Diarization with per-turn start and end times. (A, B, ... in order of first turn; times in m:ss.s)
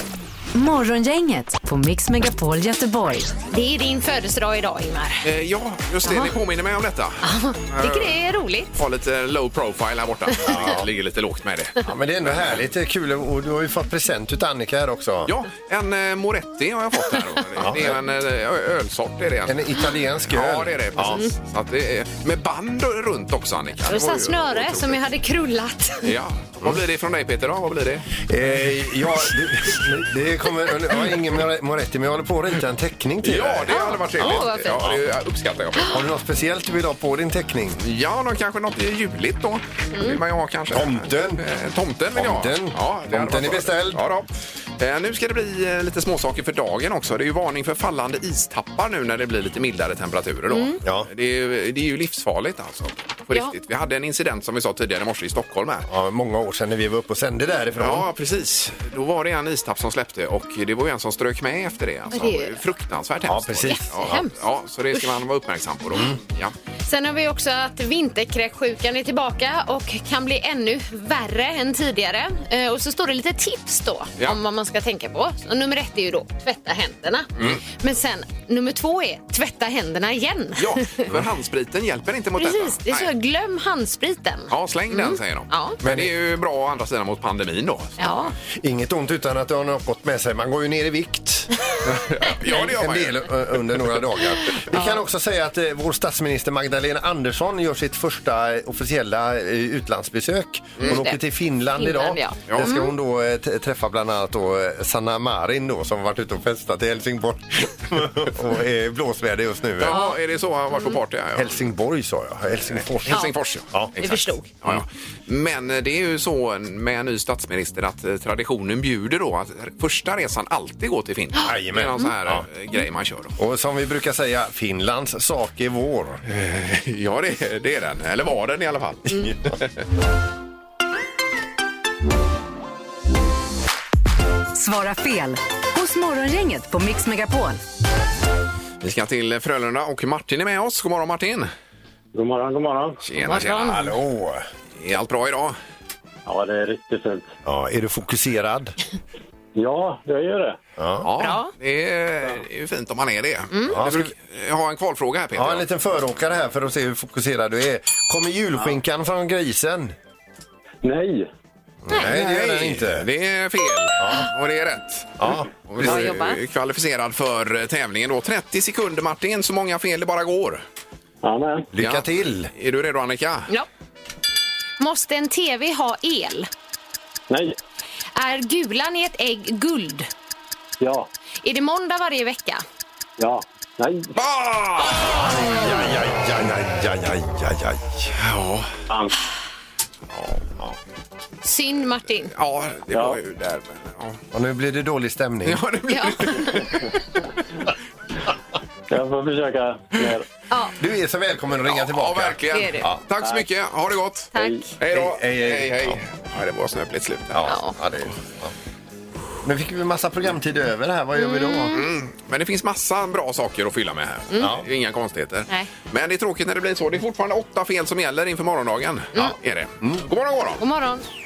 0:00.5-0:03.4 A
0:03.5-0:05.2 B
0:05.2-0:08.2 C
0:06.0-0:06.3 B
0:07.2-0:08.8 B
0:08.7-0:12.6 C
0:10.4-0:10.9 D
0:11.8-0:15.3 D
0:15.3-0:25.0 C
0:17.6-0:18.0 D
0:19.5-0:21.2 D
0:23.8-0:26.1 B
0:26.0-0:28.1 C
0:28.2-0:34.3 D
0:33.2-0:36.0 C
0:33.7-0:34.8 B
0:35.9-0:37.8 D
0:37.8-0:55.9 C
0:40.7-0:41.4 D
0:42.1-0:44.0 D
0:50.5-0:50.8 B
0:50.8-0:51.1 D
0:55.9-0:58.1 D
0:57.8-1:06.5 C
1:02.1-1:02.6 B
1:03.2-1:04.2 D
1:03.6-1:04.4 B
1:05.9-1:06.2 D
1:06.8-1:21.0 B
1:20.6-1:23.1 C
1:22.4-1:25.8 B
1:24.5-1:28.1 C
1:25.8-1:26.1 D
1:28.0-1:28.3 B
1:28.6-1:31.5 D
1:31.8-1:33.8 C
1:32.5-1:50.0 D
1:34.7-1:35.0 B
1:40.8-1:41.2 B
1:41.8-1:42.9 B
1:42.5-1:42.8 C
1:49.8-1:51.7 C
1:49.9-1:50.2 B
1:50.7-1:51.0 B
1:51.4-1:53.9 D
1:52.6-2:03.4 C
1:53.1-1:53.3 B
1:54.0-1:54.5 B
2:01.4-2:02.4 D
2:03.4-2:06.2 D
2:06.3-2:09.7 C
2:14.6-2:17.6 A
2:18.8-2:21.5 C
2:22.1-2:23.0 E
2:23.0-2:24.0 C
2:23.2-2:23.9 B
2:23.6-2:24.4 D
2:24.8-2:25.6 C
2:26.3-2:27.3 E
2:27.4-2:28.8 D
2:29.6-2:30.6 E
2:30.8-2:31.1 D
2:31.0-2:35.6 C
2:31.2-2:31.5 B
2:33.5-2:33.8 B
2:33.7-2:34.1 D
2:35.4-2:39.9 D
2:40.8-2:41.3 E
2:41.8-2:43.1 D
2:42.0-2:50.6 C
2:44.0-2:44.3 D
2:45.2-2:46.1 D
2:45.8-2:46.4 B
2:51.2-2:51.7 E
2:51.7-2:52.5 D
2:51.8-2:53.5 C
2:54.8-2:56.5 B
2:57.3-2:57.6 E
2:58.2-3:00.1 B
3:00.8-3:01.1 E
3:01.4-3:02.6 B
3:03.2-3:04.1 E
3:04.2-3:05.3 C
3:05.1-3:08.1 D
3:08.2-3:08.7 C
3:10.1-3:10.4 C
3:11.4-3:12.3 B
3:12.3-3:14.2 C
3:12.9-3:13.2 E
3:14.3-3:15.6 D
3:15.4-3:16.8 C
3:15.9-3:16.7 B
3:18.9-3:20.2 E
3:20.5-3:20.8 B
3:20.8-3:23.0 D
3:21.6-3:27.5 C
3:22.5-3:22.9 B
3:24.3-3:24.7 B
3:24.4-3:24.7 E
3:24.9-3:26.0 D
3:27.3-3:28.5 D
3:27.4-3:27.7 B
3:29.4-3:31.8 D
3:31.1-3:31.9 B
3:31.7-3:40.6 C
3:34.4-3:34.6 D
3:40.6-3:41.0 B